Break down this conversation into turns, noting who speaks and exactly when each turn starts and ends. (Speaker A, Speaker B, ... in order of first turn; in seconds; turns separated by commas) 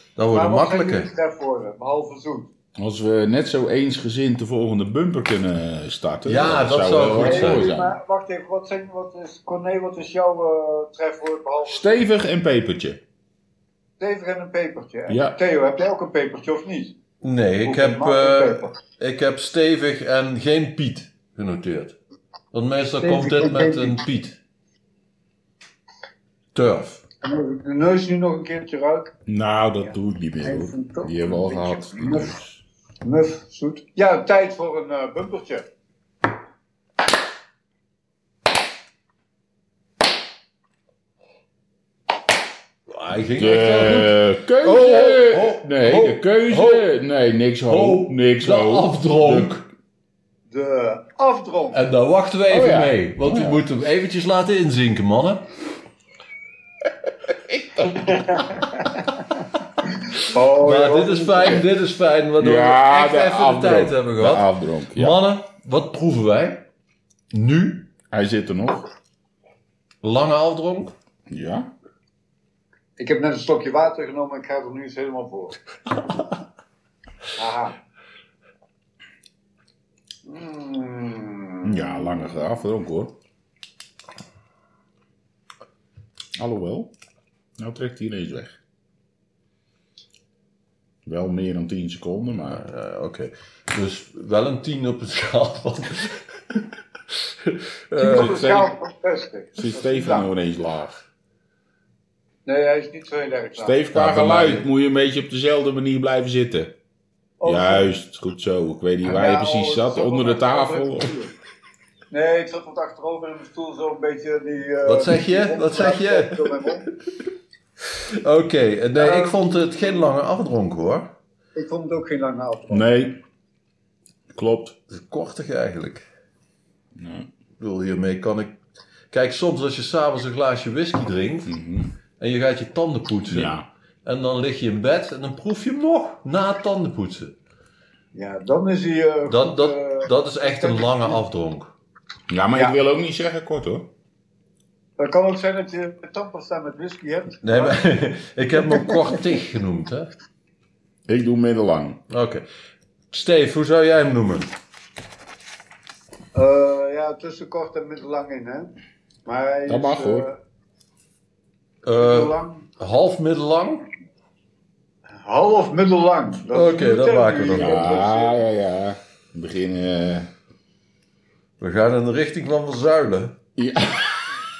Speaker A: 0.1-1.1, Speaker B: 0.3-2.5, Speaker C: 2.8-7.9, Speaker A: 6.2-7.8, Speaker B: 7.0-12.0, Speaker C: 11.6-13.0, Speaker B: 14.0-16.9, Speaker C: 15.1-15.4, Speaker A: 17.2-21.9, Speaker B: 17.6-18.7, Speaker A: 22.5-24.4, Speaker B: 23.0-24.0, Speaker A: 26.5-27.0, Speaker B: 27.2-29.1, Speaker C: 29.3-32.6, Speaker B: 30.4-32.4, Speaker B: 33.0-35.7, Speaker A: 42.9-46.9, Speaker C: 43.4-49.5, Speaker A: 47.7-49.7, Speaker B: 50.5-51.8, Speaker A: 51.7-55.5, Speaker C: 52.5-53.6, Speaker C: 57.5-58.1, Speaker B: 57.9-59.1, Speaker B: 60.0-61.7, Speaker A: 60.6-66.7, Speaker C: 62.4-65.2, Speaker A: 67.3-67.9, Speaker C: 68.1-68.9, Speaker A: 70.0-70.9, Speaker C: 71.3-71.7, Speaker B: 73.0-75.5, Speaker B: 77.3-77.8, Speaker B: 80.2-82.3, Speaker C: 81.6-83.1, Speaker C: 86.4-86.9, Speaker C: 87.6-88.5, Speaker C: 91.0-92.6, Speaker A: 92.5-96.6, Speaker A: 97.4-98.5, Speaker B: 98.0-100.3, Speaker C: 98.0-98.7, Speaker C: 99.5-101.0, Speaker B: 102.5-103.8, Speaker C: 103.6-106.7, Speaker A: 103.9-104.7, Speaker B: 107.4-107.9, Speaker C: 107.4-111.2, Speaker B: 109.0-111.3, Speaker B: 112.1-116.9, Speaker A: 114.8-116.8, Speaker A: 118.0-121.1, Speaker B: 119.0-119.6, Speaker B: 121.5-122.9, Speaker C: 122.7-123.2, Speaker C: 124.3-124.8, Speaker A: 124.9-126.0, Speaker C: 126.9-127.3, Speaker A: 127.6-128.6, Speaker A: 129.1-131.5, Speaker C: 131.4-131.9, Speaker A: 132.2-137.3, Speaker C: 133.3-133.7, Speaker B: 138.1-141.2, Speaker A: 139.3-141.7, Speaker C: 142.3-143.9, Speaker B: 145.0-147.8, Speaker A: 147.4-150.1, Speaker C: 151.1-152.0, Speaker A: 152.1-152.4, Speaker A: 153.1-154.5, Speaker B: 156.3-158.7, Speaker B: 159.2-160.4, Speaker C: 159.7-160.3, Speaker A: 161.8-163.9, Speaker B: 162.0-162.7, Speaker B: 165.2-168.4, Speaker A: 166.5-167.9, Speaker C: 167.5-170.3, Speaker A: 171.6-173.4, Speaker C: 173.6-174.4